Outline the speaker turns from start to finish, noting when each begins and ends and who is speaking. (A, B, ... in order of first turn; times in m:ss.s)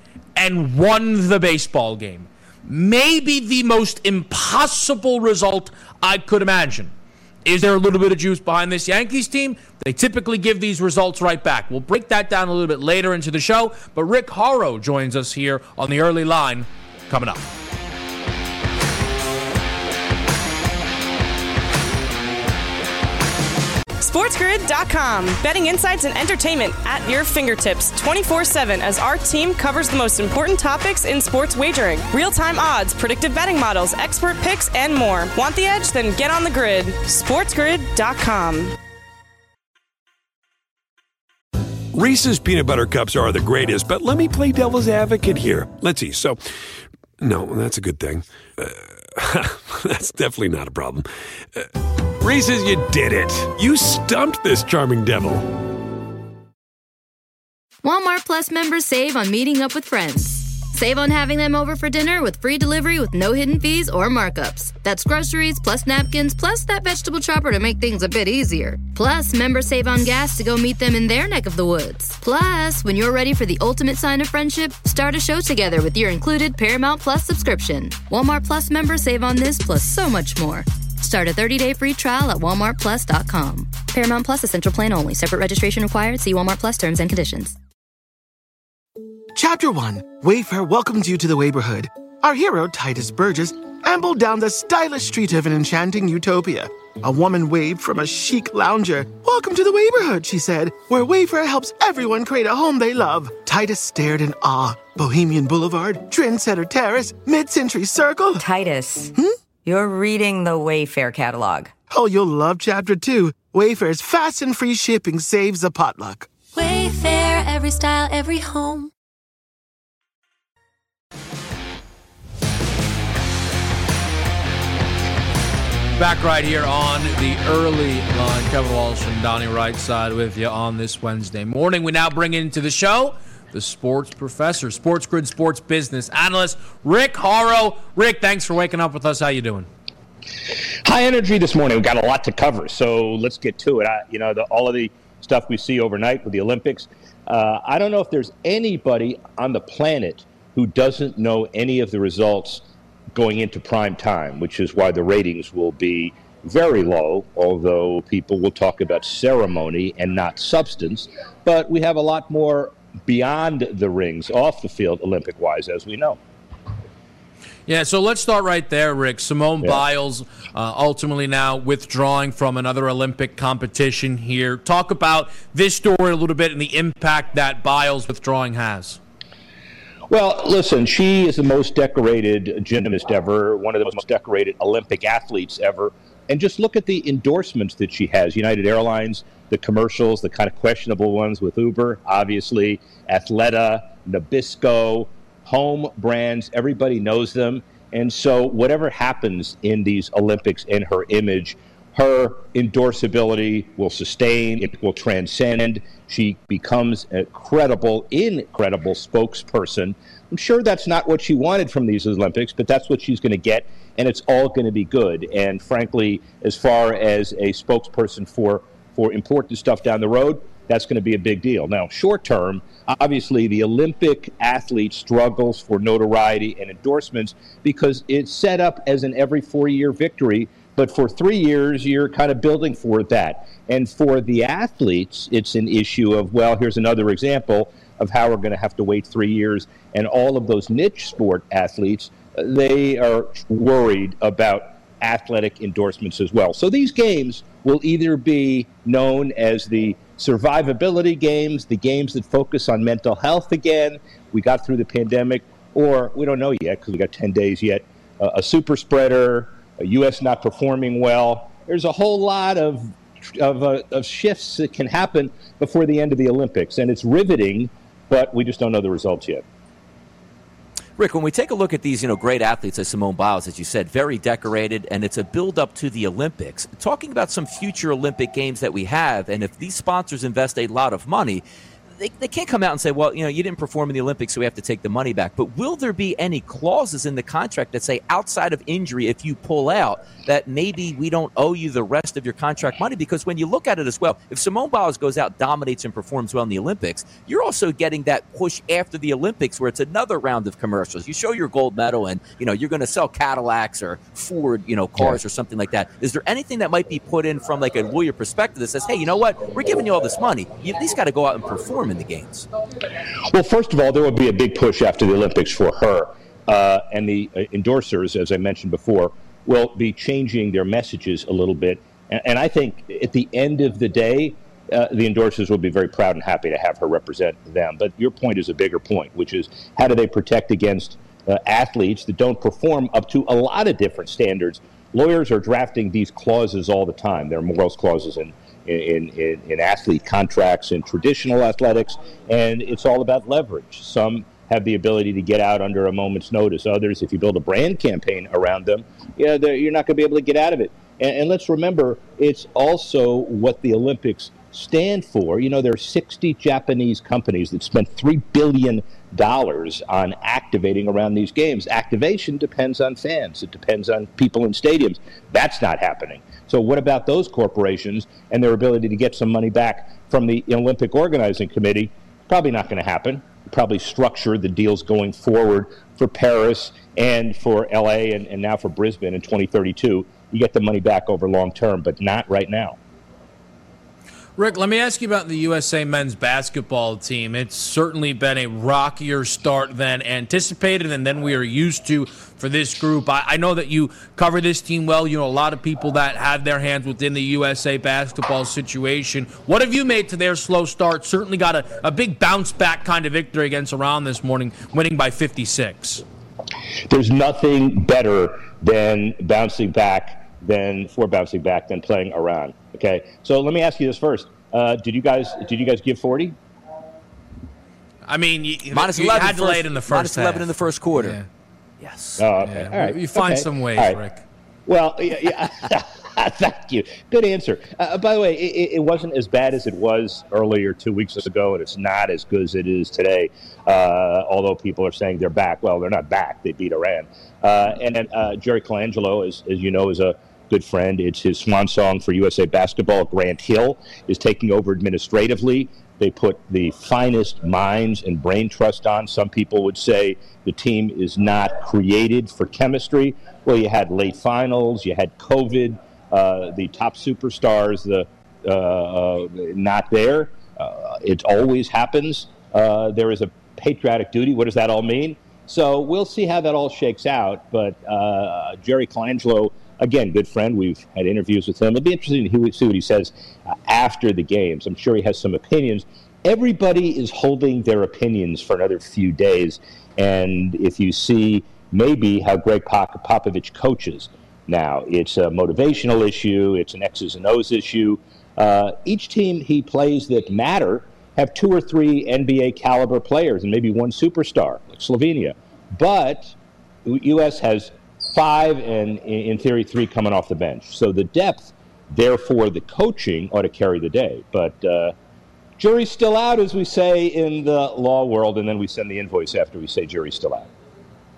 0:00.4-0:06.9 A
0:07.4-0:17.4 A
0:24.0-0:38.8 B
0:41.9-0:46.4 C
0:47.2-0:55.6 C
0:57.8-1:27.6 D
1:29.4-1:48.4 E
1:48.4-1:49.1 F
1:49.6-1:51.7 F
1:51.9-1:56.3 E
1:56.5-1:58.9 G
2:06.0-2:19.7 A
2:20.8-2:46.2 H
2:47.7-2:59.0 A
3:00.1-4:29.4 H
4:31.0-4:41.4 I
4:42.0-5:12.5 I
5:13.2-6:22.8 H
6:24.4-6:46.0 A
6:46.9-6:56.4 H
6:58.1-7:01.2 A
6:58.7-7:01.2 I
7:01.8-7:02.2 I
7:02.2-7:04.0 H
7:02.4-7:04.2 A
7:04.7-8:24.9 H
8:25.6-8:30.5 H